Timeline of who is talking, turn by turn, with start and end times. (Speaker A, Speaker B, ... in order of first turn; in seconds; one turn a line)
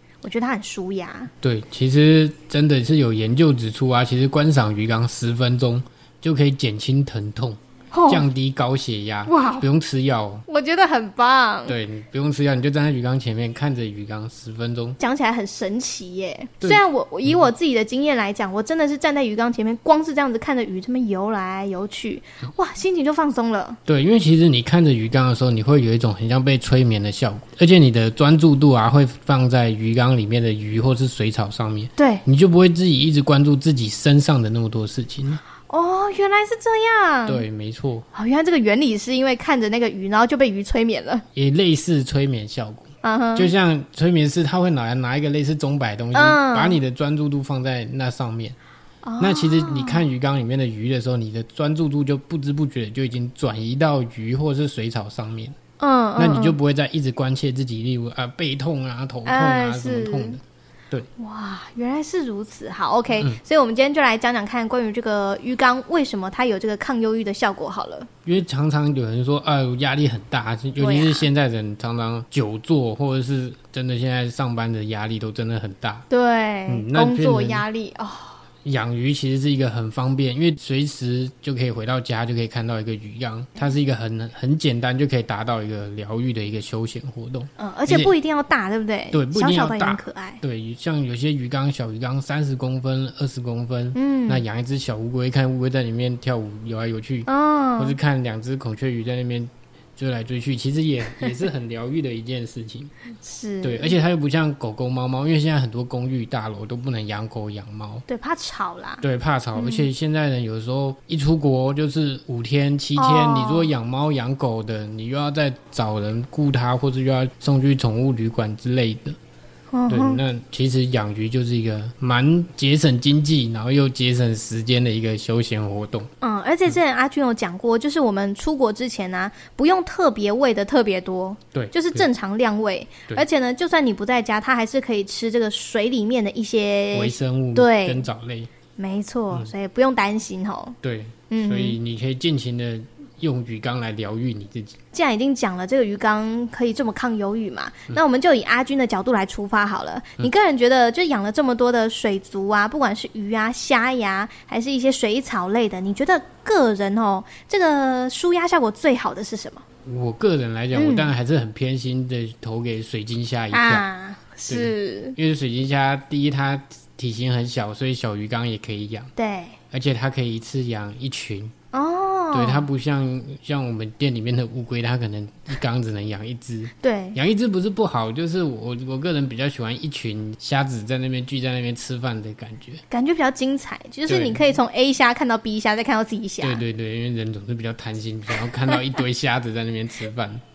Speaker A: 0.2-1.3
Speaker B: 1.4-10.4
Speaker A: 7.9-8.2
Speaker A: 9.2-9.7
Speaker A: 10.5-11.8
Speaker B: 11.7-15.0
Speaker A: 15.0-23.8
Speaker B: 23.9-35.4
Speaker A: 32.0-32.2
Speaker A: 35.7-37.4
Speaker B: 37.2-38.0
Speaker A: 38.1-41.2
Speaker B: 41.3-48.5
Speaker A: 43.0-43.5
Speaker A: 46.1-46.8
Speaker A: 49.0-50.0
Speaker B: 49.2-55.6
Speaker A: 55.8-56.6
Speaker B: 56.2-61.1
Speaker A: 59.2-60.4
Speaker A: 61.2-68.1
Speaker B: 68.2-76.0
Speaker A: 70.8-71.3
Speaker A: 76.1-78.4
Speaker B: 76.7-77.6
Speaker B: 78.6-88.1
Speaker A: 87.6-90.4
Speaker B: 89.1-102.9
Speaker A: 93.9-94.4
Speaker A: 97.3-98.0
Speaker A: 103.2-103.9
Speaker B: 103.6-108.0
Speaker A: 108.1-109.0
Speaker B: 109.0-119.2
Speaker A: 109.5-109.9
Speaker A: 113.0-113.7
Speaker A: 119.7-120.2
Speaker B: 119.9-126.1
Speaker A: 126.2-138.1
Speaker B: 131.5-132.1
Speaker B: 136.9-138.5
Speaker A: 138.8-140.8
Speaker B: 140.8-144.8
Speaker A: 141.3-141.8
Speaker A: 144.9-159.6
Speaker B: 159.8-163.8
Speaker A: 160.7-161.1
Speaker A: 163.5-165.2
Speaker B: 164.5-169.1
Speaker A: 169.2-169.6
Speaker B: 169.7-171.5
Speaker A: 171.7-172.7
Speaker B: 172.3-182.8
Speaker A: 176.8-177.2
Speaker A: 182.9-186.6
Speaker B: 184.1-184.4
Speaker B: 186.4-190.4